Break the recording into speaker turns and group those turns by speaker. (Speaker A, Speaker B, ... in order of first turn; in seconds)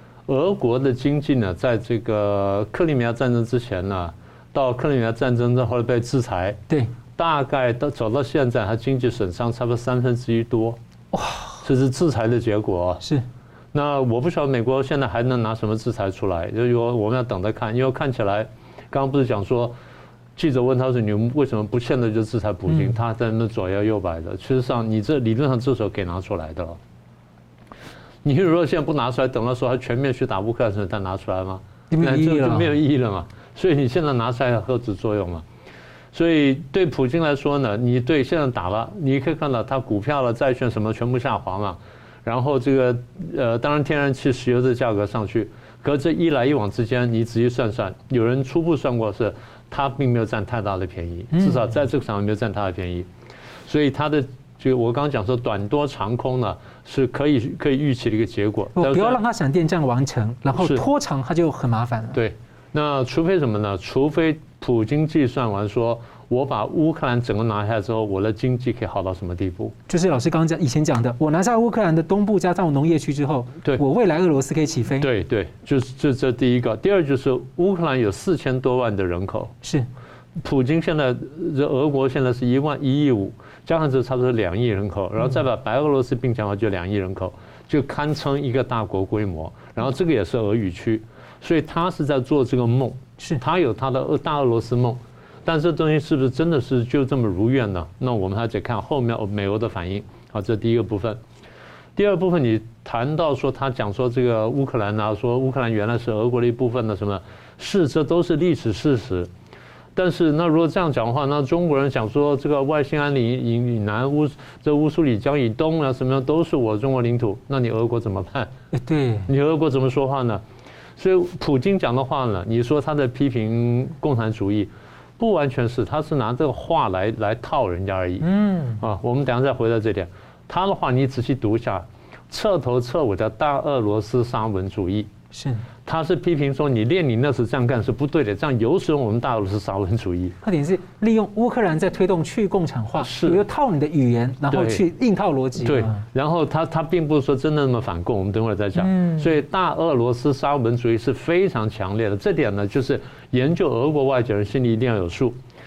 Speaker A: 0.3-6.6, 7.2-10.8, 11.6-13.0, 13.7-19.8, 20.4-26.8, 28.2-35.4, 36.1-53.1, 53.7-59.2, 60.5-60.8, 62.1-69.8, 75.0-79.5, 80.4-101.2, 102.0-109.3, 109.9-118.5, 119.3-120.4, 121.0-128.2, 128.8-135.1, 135.8-140.3, 143.0-143.4, 144.5-144.8, 145.6-155.4
Speaker B: 11.1-11.6, 22.7-22.9, 31.9-32.7, 51.3-51.6, 58.8-62.2, 69.9-75.1, 79.6-79.9, 118.7-119.3, 128.2-128.8, 135.3-135.6, 140.4-146.0, 148.8-149.3